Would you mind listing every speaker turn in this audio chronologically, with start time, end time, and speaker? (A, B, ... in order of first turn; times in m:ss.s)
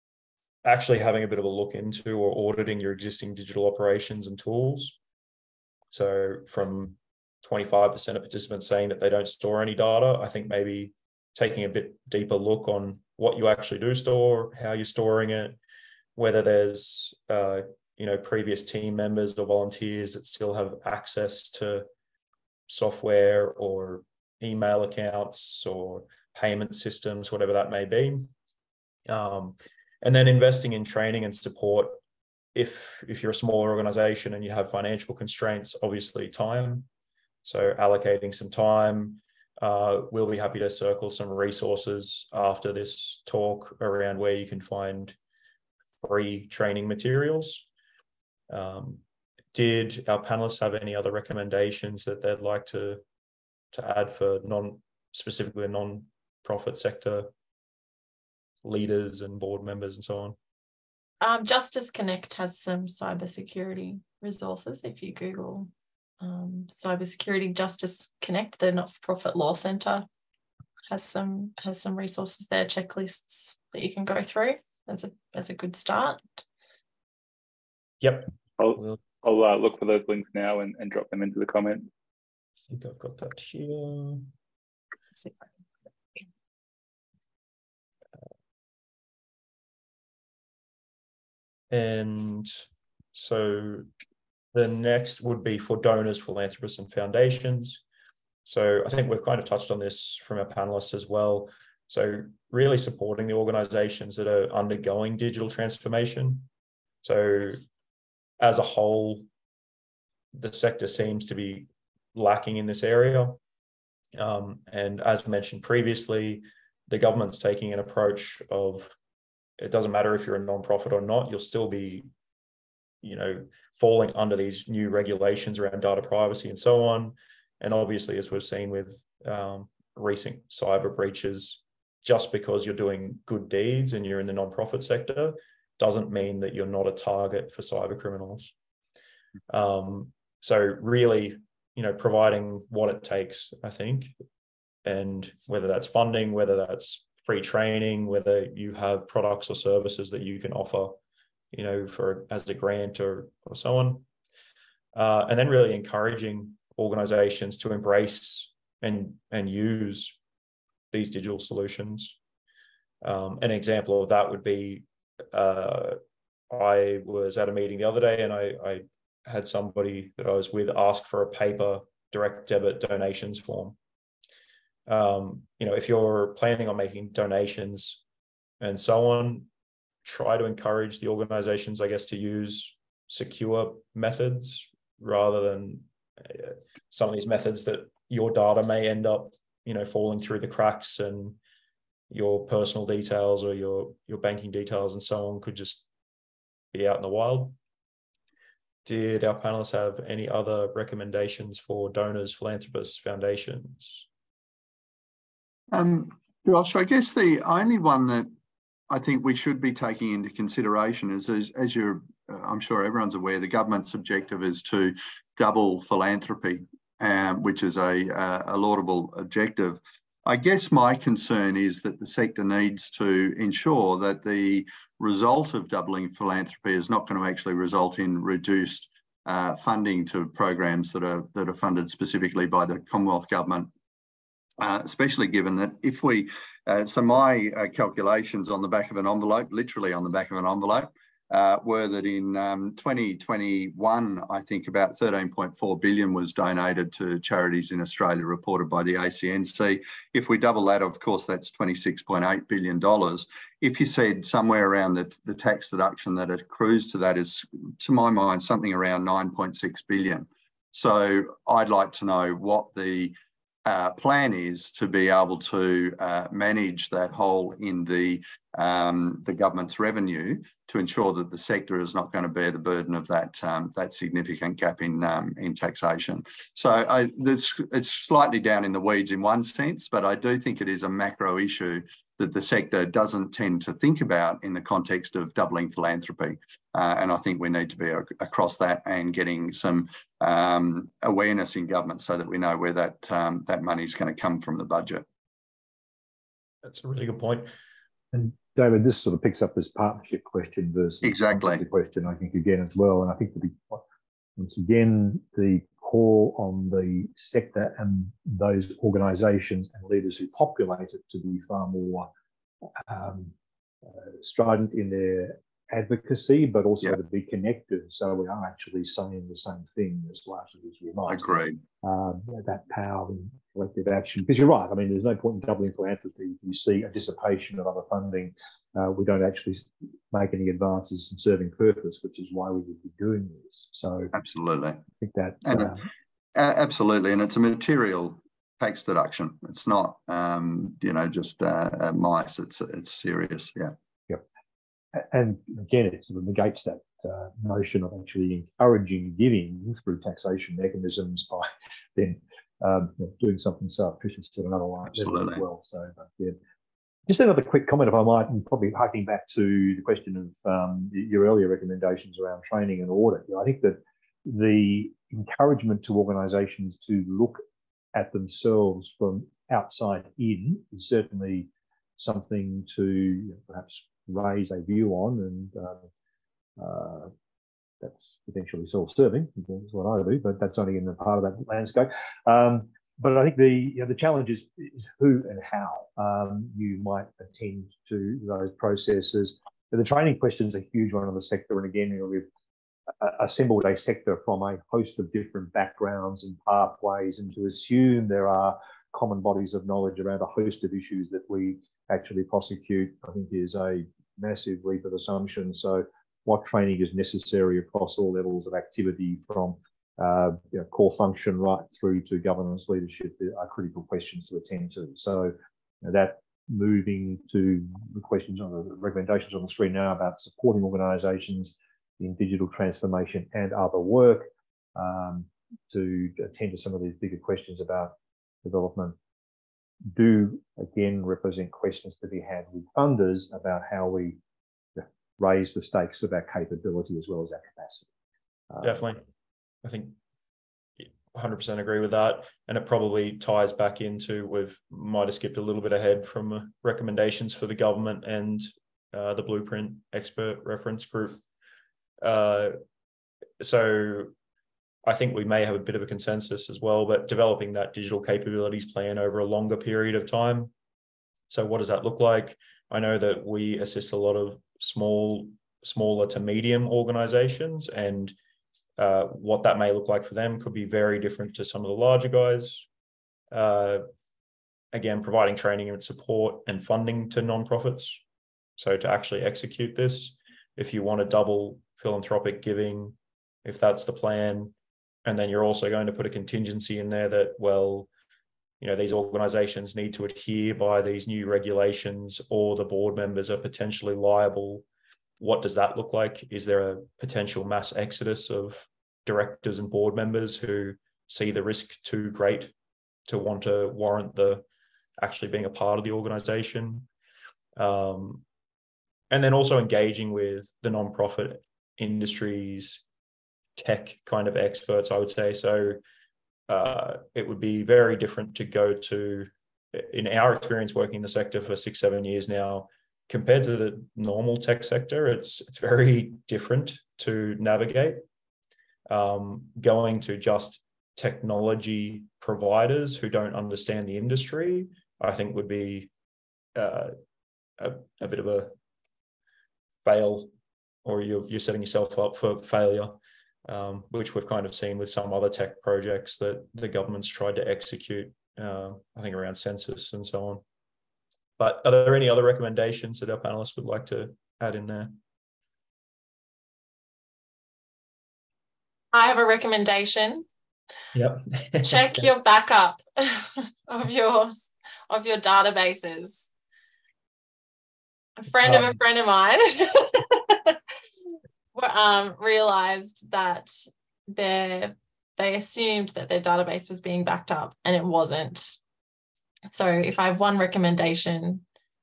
0:00.6-0:05.0 A
0:05.9-0:15.6 A
0:16.2-0:21.9 A
0:22.7-0:28.3 A
0:29.1-0:32.0 A
0:32.5-0:36.9 A
0:37.4-0:45.2 A
0:46.0-0:47.7 A
0:48.5-0:49.0 A
0:49.5-0:53.0 A
0:53.7-0:57.3 A
0:58.6-1:00.4 A
1:01.2-1:05.7 B
1:06.2-1:10.1 B
1:10.9-1:16.4 B
1:18.0-1:19.0 A
1:18.6-1:21.9 C
1:22.6-1:24.3 A
1:31.7-1:33.8 A
1:34.5-1:37.8 A
1:38.4-1:46.5 A
1:47.0-1:47.6 A
1:48.4-1:49.2 A
1:50.3-1:53.4 A
1:54.2-1:59.0 A
1:59.6-2:02.1 A
2:03.0-2:18.5 A
2:19.5-2:24.1 A
2:24.8-2:31.0 A
2:31.5-2:34.0 A
2:34.9-2:40.2 A
2:40.9-2:42.2 A
2:43.0-2:46.0 A
2:46.5-2:53.8 A
2:54.9-2:58.0 A
2:58.6-2:59.5 A
3:00.0-3:11.4 A
3:12.1-3:15.8 A
3:16.7-3:17.5 A
3:18.8-3:24.0 A
3:25.7-3:28.3 D
3:28.9-3:53.7 D
3:54.6-4:55.0 D
4:56.6-4:57.5 A
4:58.1-5:03.8 E
5:01.0-5:01.6 D
5:04.4-5:12.1 E
5:12.8-5:13.3 E
5:13.9-5:21.3 E
5:21.1-5:21.6 D
5:21.8-5:34.1 E
5:34.1-5:34.8 D
5:35.0-5:35.8 E
5:35.4-5:35.7 D
5:36.3-5:43.7 D
5:44.9-5:56.4 E
5:55.0-5:55.4 D
5:57.1-6:07.4 E
6:07.9-6:15.9 E
6:16.6-6:17.1 E
6:17.8-6:32.3 E
6:33.0-7:09.0 E
7:09.9-7:14.2 E
7:14.8-7:17.9 E
7:18.5-7:18.8 E
7:18.6-7:19.0 A
7:19.6-7:19.9 A
7:20.8-7:31.2 A
7:32.0-7:32.6 A
7:33.4-7:34.1 A
7:34.8-7:40.5 A
7:41.3-7:48.1 A
7:48.8-7:52.7 A
7:53.3-7:53.8 A
7:54.7-7:58.0 A
7:58.6-8:04.5 A
8:05.0-8:07.9 A
8:08.6-8:14.6 A
8:15.2-8:22.5 A
8:23.1-8:24.4 A
8:25.0-8:26.9 A
8:27.6-8:28.2 A
8:29.1-8:32.8 A
8:33.6-8:35.8 A
8:36.5-8:48.0 A
8:48.9-8:55.9 A
8:56.6-8:56.9 A
8:57.6-8:58.5 A
8:59.8-9:00.3 A
9:00.8-9:10.4 A
9:11.4-9:14.9 A
9:18.9-9:20.2 B
9:20.9-9:22.1 A
9:21.6-9:26.3 B
9:28.2-9:30.7 B
9:28.4-9:28.8 A
9:31.5-9:38.6 B
9:39.5-9:41.4 B